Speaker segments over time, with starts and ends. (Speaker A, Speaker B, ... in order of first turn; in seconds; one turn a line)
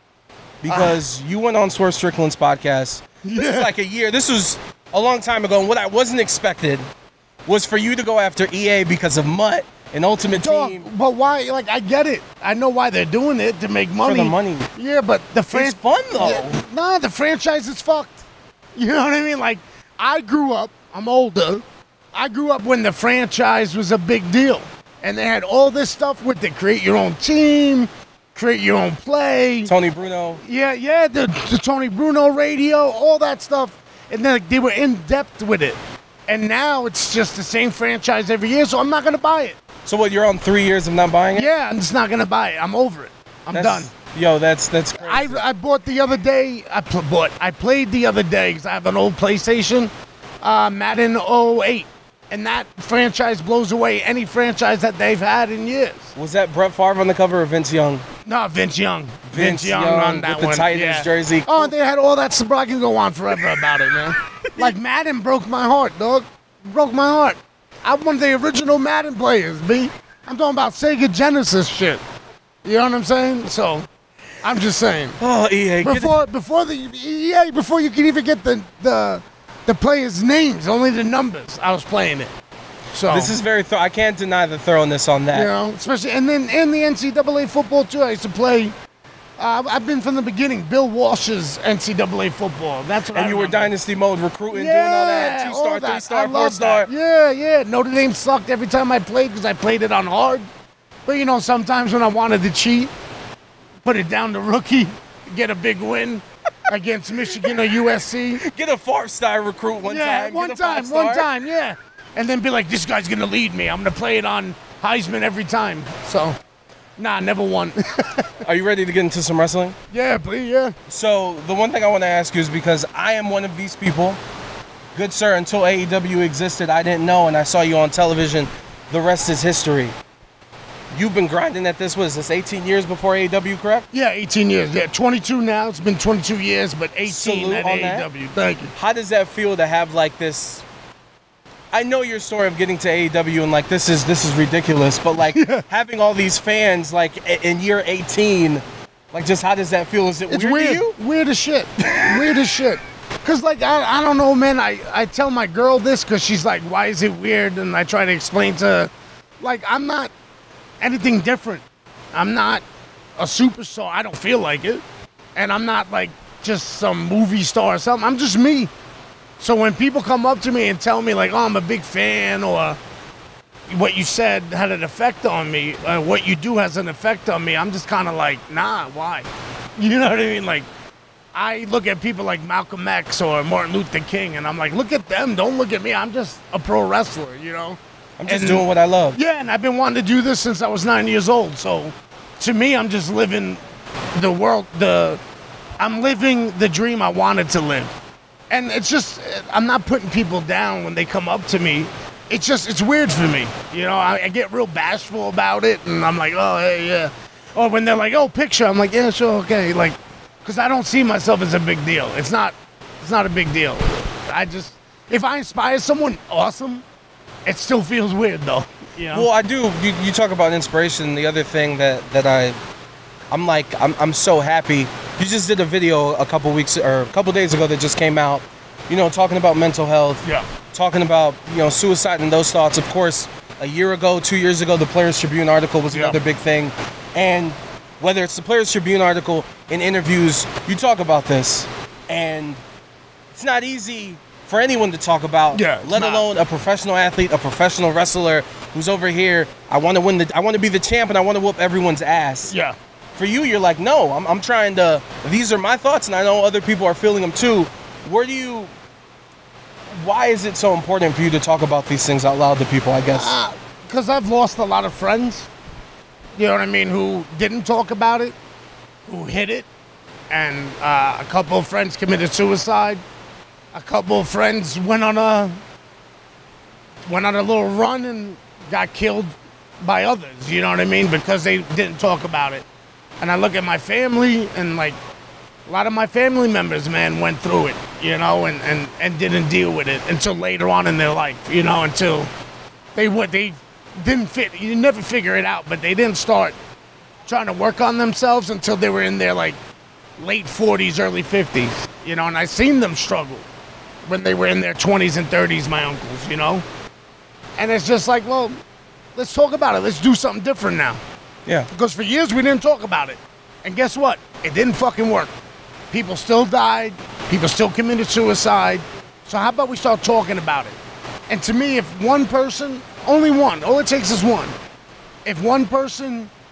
Speaker A: 0.6-6.8
Speaker B: 0.7-1.0
Speaker B: 3.2-3.7
Speaker A: 7.5-10.9
Speaker B: 10.3-18.2
Speaker A: 14.0-14.7
Speaker A: 15.5-16.6
Speaker B: 18.8-29.7
Speaker A: 29.7-30.4
Speaker B: 30.4-39.6
Speaker A: 39.9-41.5
Speaker B: 41.3-43.9
Speaker A: 43.5-45.4
Speaker B: 45.0-49.9
Speaker B: 50.4-56.1
Speaker A: 56.2-58.1
Speaker B: 58.2-72.0
Speaker A: 59.3-61.7
Speaker B: 72.6-73.9
Speaker B: 74.4-75.2
Speaker A: 75.2-76.2
Speaker B: 75.8-82.3
Speaker B: 82.9-83.3
Speaker A: 83.1-85.5
Speaker B: 85.3-88.8
Speaker B: 89.4-93.7
Speaker A: 93.1-96.9
Speaker B: 94.5-100.5
Speaker B: 101.1-102.9
Speaker B: 103.8-108.5
Speaker A: 108.4-111.3
Speaker B: 109.8-116.4
Speaker B: 117.0-118.5
Speaker A: 118.4-119.8
Speaker B: 119.9-120.8
Speaker A: 120.9-124.2
Speaker A: 125.0-129.9
Speaker A: 131.0-133.9
Speaker B: 133.9-138.7
Speaker A: 137.1-138.1
Speaker A: 138.8-140.6
Speaker A: 141.7-151.0
Speaker B: 145.2-145.6
Speaker B: 150.3-160.1
Speaker A: 151.9-152.3
Speaker B: 160.8-162.6
Speaker B: 163.2-164.8
Speaker B: 165.4-168.7
Speaker B: 169.4-172.8
Speaker B: 173.7-180.7
Speaker B: 181.3-193.6
Speaker A: 188.2-189.2
Speaker B: 194.2-195.2
Speaker B: 195.8-197.9
Speaker B: 198.5-216.8
Speaker B: 217.5-219.3
Speaker A: 219.1-222.6
Speaker A: 223.3-242.6
Speaker B: 235.9-236.2
Speaker A: 243.3-252.5
Speaker B: 245.5-246.2
Speaker B: 252.5-252.8
Speaker A: 253.2-258.7
Speaker A: 259.9-263.4
Speaker B: 263.1-265.5
Speaker B: 266.4-268.4
Speaker B: 269.1-269.7
Speaker B: 270.3-273.0
Speaker B: 273.7-275.6
Speaker B: 277.1-282.6
Speaker B: 283.2-285.0
Speaker B: 285.7-292.3
Speaker B: 292.9-296.6
Speaker B: 297.3-299.6
Speaker B: 300.2-303.5
Speaker B: 304.1-306.6
Speaker B: 307.6-308.6
Speaker B: 309.1-311.0
Speaker B: 311.7-315.3
Speaker B: 315.9-320.8
Speaker B: 321.3-324.5
Speaker B: 325.2-326.3